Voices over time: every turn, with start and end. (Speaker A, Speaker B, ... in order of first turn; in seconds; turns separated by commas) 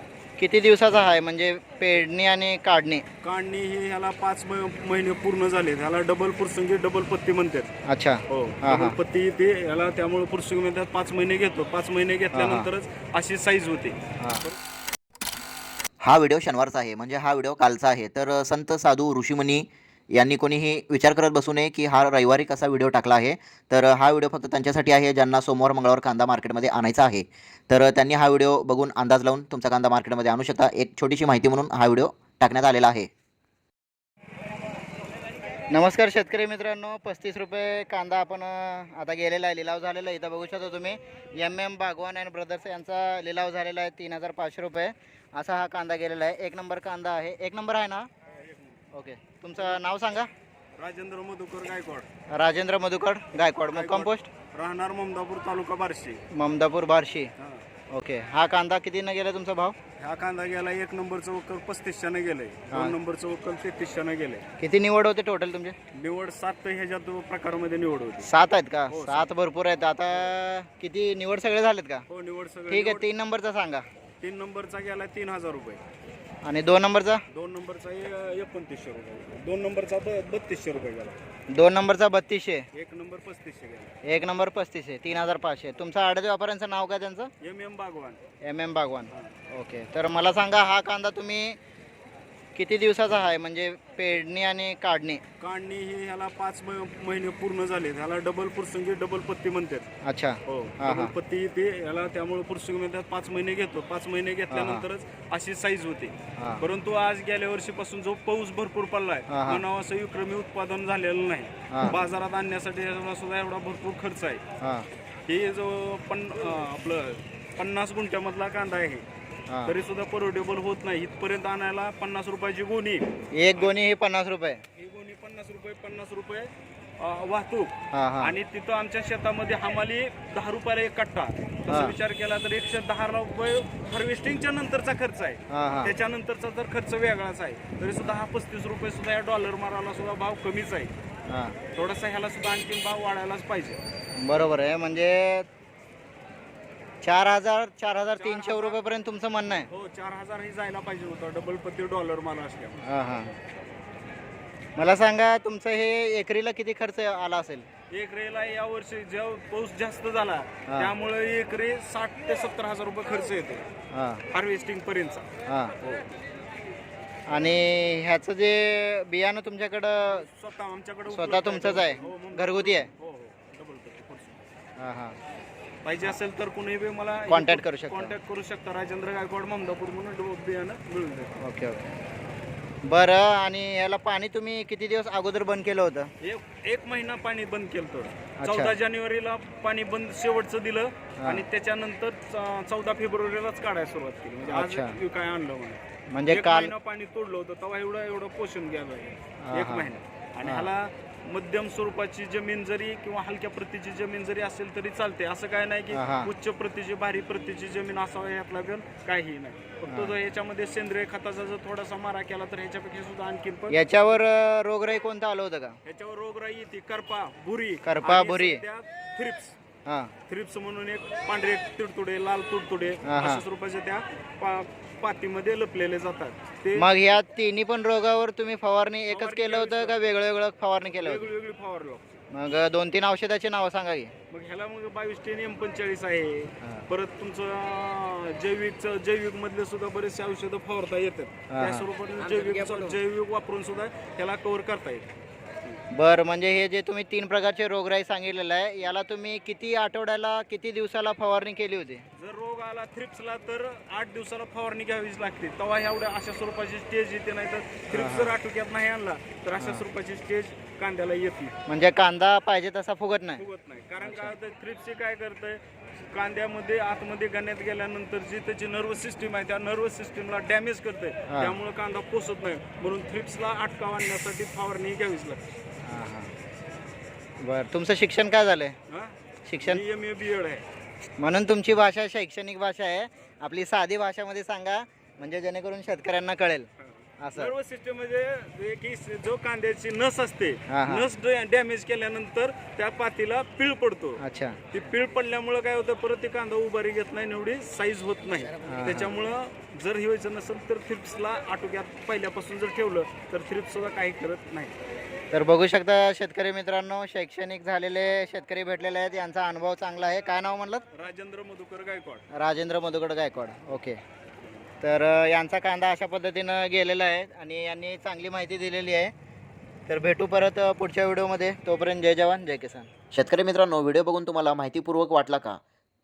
Speaker A: 0.4-3.0, Speaker B: 3.2-7.7, Speaker A: 7.9-9.0, Speaker B: 8.3-14.6, Speaker A: 12.3-12.7, Speaker A: 14.2-14.4, Speaker C: 16.0-33.1, Speaker A: 35.7-48.1, Speaker B: 48.3-48.9, Speaker A: 48.9-50.3, Speaker B: 50.8-52.1, Speaker A: 52.3-54.3, Speaker B: 53.7-56.2, Speaker A: 56.3-57.3, Speaker B: 57.4-57.6, Speaker A: 57.9-59.8, Speaker B: 60.0-64.4, Speaker A: 62.7-63.0, Speaker A: 64.6-65.8, Speaker B: 65.9-68.3, Speaker A: 68.2-72.0, Speaker B: 68.9-69.3, Speaker B: 72.1-73.0, Speaker A: 72.7-73.8, Speaker B: 74.2-75.8, Speaker A: 76.4-77.2, Speaker B: 77.3-81.2, Speaker A: 81.5-82.7, Speaker B: 82.7-83.9, Speaker A: 84.0-87.3, Speaker B: 87.4-88.2, Speaker A: 88.4-91.6, Speaker A: 92.5-95.2, Speaker B: 95.4-99.9, Speaker A: 100.0-101.1, Speaker B: 100.5-114.4, Speaker A: 104.5-104.8, Speaker A: 106.4-106.6, Speaker A: 109.3-109.6, Speaker A: 111.7-112.0, Speaker A: 114.6-114.9, Speaker B: 115.3-119.0, Speaker A: 119.5-119.7, Speaker B: 119.7-123.0, Speaker A: 123.3-124.6, Speaker B: 124.8-140.9, Speaker A: 127.9-128.4, Speaker A: 131.7-131.9, Speaker A: 135.5-135.9, Speaker A: 141.3-141.6, Speaker B: 141.7-143.8, Speaker A: 144.2-145.5, Speaker A: 147.0-149.7, Speaker B: 148.2-148.8, Speaker B: 149.7-152.8, Speaker A: 152.8-153.3, Speaker A: 154.8-157.7, Speaker B: 157.9-163.7, Speaker A: 160.7-160.9, Speaker A: 163.9-164.2, Speaker B: 164.3-165.3, Speaker A: 165.5-165.7, Speaker A: 167.3-170.3, Speaker B: 170.1-174.4, Speaker A: 171.1-172.9, Speaker A: 174.8-175.2, Speaker B: 175.8-181.4, Speaker A: 177.3-178.1, Speaker A: 181.4-181.9, Speaker A: 182.8-186.1, Speaker B: 186.2-213.7, Speaker A: 188.4-188.8, Speaker A: 191.2-191.4, Speaker A: 194.5-195.0, Speaker A: 196.1-196.7, Speaker A: 199.4-199.9, Speaker A: 200.4-200.7, Speaker A: 205.9-206.3, Speaker A: 209.9-210.1, Speaker A: 213.7-215.8, Speaker B: 215.8-219.6, Speaker A: 217.8-218.6, Speaker A: 219.9-220.1, Speaker B: 220.3-226.9, Speaker A: 223.1-223.4, Speaker A: 226.8-231.3, Speaker B: 229.1-230.0, Speaker B: 230.9-232.2, Speaker A: 232.3-234.1, Speaker B: 234.3-245.1, Speaker A: 241.5-241.8, Speaker A: 245.9-252.1, Speaker B: 252.2-261.5, Speaker A: 257.9-258.3, Speaker A: 261.7-263.4, Speaker B: 263.4-275.5, Speaker A: 264.0-264.3, Speaker A: 271.3-271.6, Speaker A: 275.9-276.3, Speaker A: 277.4-278.8, Speaker B: 278.9-280.6, Speaker A: 279.5-279.8, Speaker A: 281.2-286.7, Speaker A: 287.2-287.5, Speaker B: 287.4-294.2, Speaker A: 290.7-291.1, Speaker A: 294.2-294.6, Speaker B: 294.7-304.7, Speaker A: 298.6-299.1, Speaker A: 305.3-310.9, Speaker B: 310.9-312.3, Speaker A: 312.3-314.0, Speaker A: 314.8-319.1, Speaker A: 319.9-322.9, Speaker C: 323.1-325.6